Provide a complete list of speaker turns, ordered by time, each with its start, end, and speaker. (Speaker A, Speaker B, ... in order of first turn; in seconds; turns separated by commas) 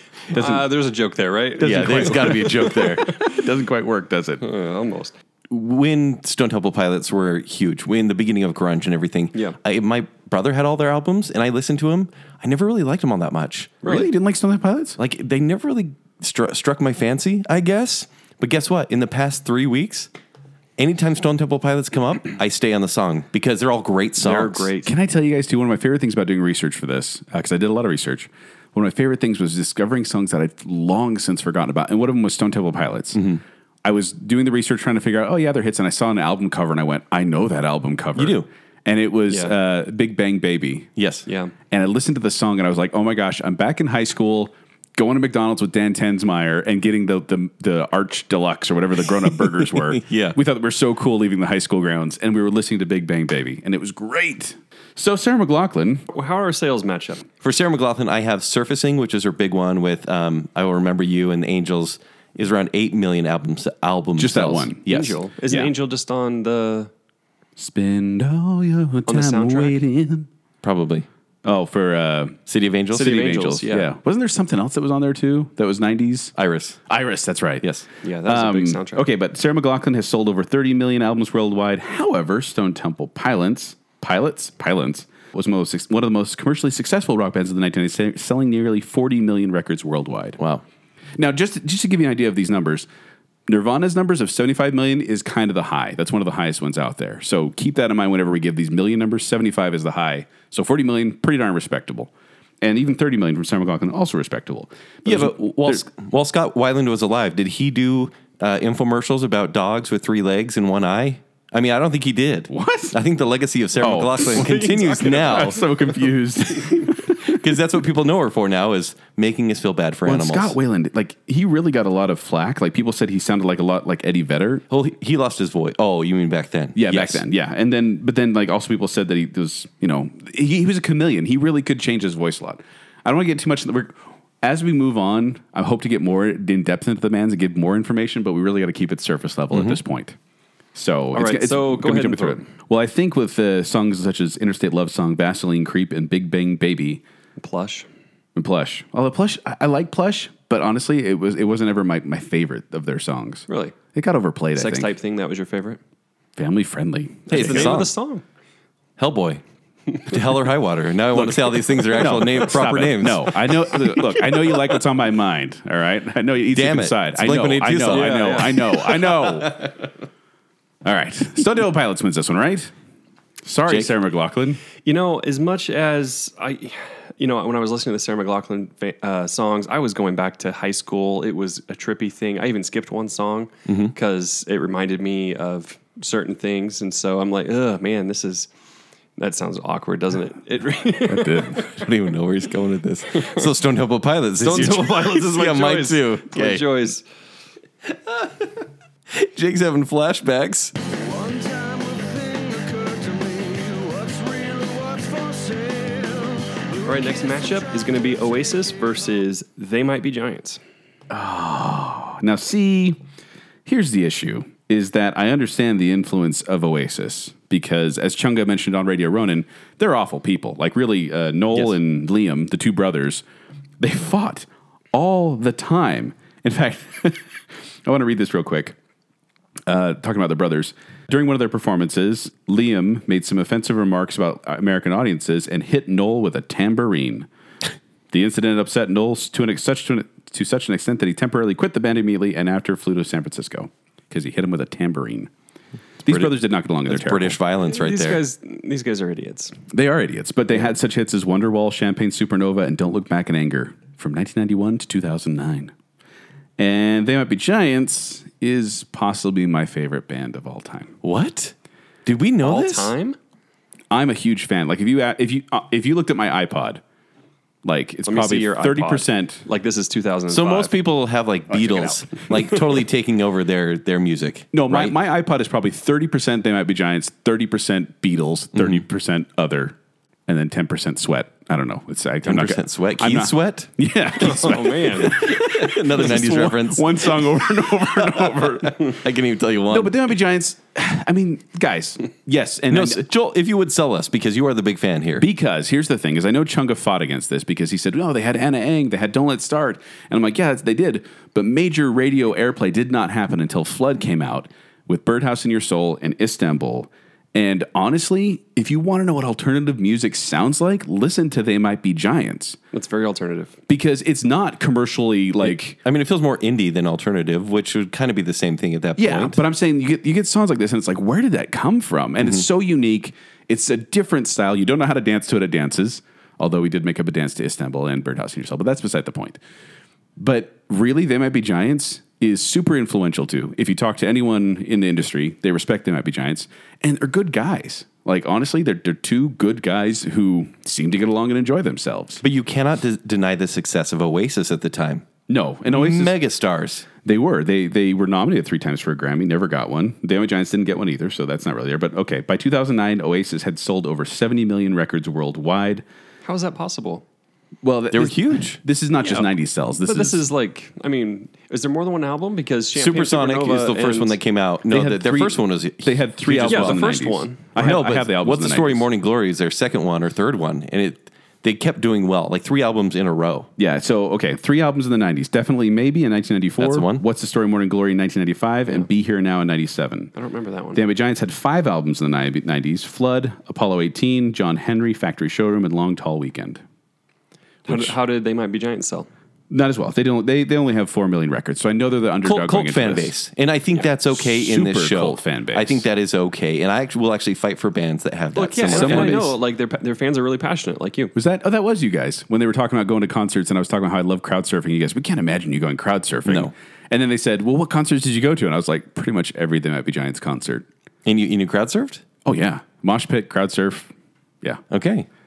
Speaker A: 0.3-3.4, Speaker B: 0.3-0.7, Speaker B: 1.6-4.4, Speaker C: 1.6-3.2, Speaker A: 4.4-5.1, Speaker C: 5.5-13.8, Speaker B: 13.8-15.0, Speaker C: 15.0-20.1, Speaker C: 20.8-24.7, Speaker A: 24.2-24.9, Speaker B: 24.8-33.2, Speaker C: 33.1-33.4, Speaker B: 33.8-40.9, Speaker C: 38.1-38.5, Speaker A: 39.3-39.5, Speaker C: 41.0-41.3, Speaker A: 41.2-41.5, Speaker B: 41.7-56.0, Speaker C: 49.8-50.4, Speaker A: 56.1-57.3, Speaker C: 57.4-65.2, Speaker B: 64.2-64.9, Speaker A: 64.9-66.9, Speaker B: 67.6-70.3, Speaker A: 69.1-69.8, Speaker C: 70.6-71.1, Speaker B: 71.4-72.4, Speaker C: 72.5-73.2, Speaker A: 72.9-73.9, Speaker B: 72.9-76.3, Speaker C: 76.3-76.8, Speaker B: 76.9-77.6, Speaker A: 78.0-79.1, Speaker B: 78.2-90.4, Speaker B: 91.2-92.9, Speaker B: 93.5-102.1, Speaker B: 102.6-105.8, Speaker C: 105.0-115.7, Speaker B: 112.5-113.0, Speaker B: 113.8-117.3, Speaker A: 114.5-115.4, Speaker C: 117.1-120.5, Speaker B: 120.0-124.6, Speaker C: 124.7-127.2, Speaker B: 126.7-140.2, Speaker C: 139.5-139.8, Speaker B: 140.7-147.0, Speaker A: 141.1-142.4, Speaker A: 147.4-147.8, Speaker B: 148.3-154.9, Speaker A: 153.5-153.7, Speaker A: 154.5-155.8, Speaker B: 156.4-157.8, Speaker A: 157.3-158.2, Speaker C: 157.3-157.9, Speaker C: 159.0-159.4, Speaker C: 160.0-163.7, Speaker B: 161.1-169.7, Speaker C: 166.5-169.7, Speaker A: 167.9-168.6, Speaker B: 170.8-172.7, Speaker B: 173.4-174.6, Speaker A: 174.8-188.5, Speaker C: 183.7-183.9, Speaker A: 189.2-191.8, Speaker B: 191.1-191.6, Speaker C: 191.6-196.9, Speaker A: 193.2-193.4, Speaker A: 194.4-197.0, Speaker C: 197.9-198.4, Speaker C: 199.1-200.7, Speaker D: 201.1-207.6, Speaker A: 206.8-210.6, Speaker B: 211.1-213.0, Speaker B: 213.7-223.2, Speaker B: 223.8-228.8, Speaker B: 229.7-237.3, Speaker B: 238.1-245.3, Speaker B: 246.0-247.4, Speaker C: 246.1-248.2, Speaker A: 247.6-249.5, Speaker B: 249.7-255.7, Speaker B: 256.6-260.9, Speaker C: 261.0-261.5, Speaker C: 262.1-262.9, Speaker A: 262.4-263.2, Speaker B: 263.9-266.8, Speaker B: 267.6-269.4, Speaker A: 268.1-270.7, Speaker C: 270.3-274.9, Speaker B: 271.5-272.0, Speaker B: 274.5-279.8, Speaker C: 278.5-278.8, Speaker B: 280.3-289.0, Speaker C: 282.2-283.7, Speaker A: 284.2-285.2, Speaker C: 284.3-290.0, Speaker B: 289.7-293.0, Speaker C: 292.7-295.3, Speaker B: 295.2-312.6, Speaker A: 312.7-313.6, Speaker B: 313.7-315.8, Speaker C: 315.5-319.4, Speaker B: 319.0-329.4, Speaker B: 330.2-342.2, Speaker C: 342.2-345.0, Speaker B: 345.3-346.2, Speaker C: 345.7-346.9, Speaker B: 347.0-355.8, Speaker A: 356.2-357.0, Speaker B: 357.6-360.2, Speaker C: 357.9-358.6, Speaker A: 359.8-364.2, Speaker C: 362.8-366.8, Speaker B: 364.7-368.9, Speaker A: 366.4-367.5, Speaker C: 367.6-373.5, Speaker B: 373.6-380.1, Speaker C: 376.6-377.0, Speaker A: 380.1-380.8, Speaker B: 380.7-386.6, Speaker B: 387.6-387.9, Speaker A: 387.6-389.1, Speaker B: 389.5-393.1, Speaker C: 392.2-399.2, Speaker B: 394.1-395.8, Speaker A: 398.3-401.1, Speaker B: 398.7-399.3, Speaker B: 401.1-410.6, Speaker C: 406.2-406.5, Speaker C: 411.0-412.0, Speaker B: 412.2-413.9, Speaker C: 414.7-415.1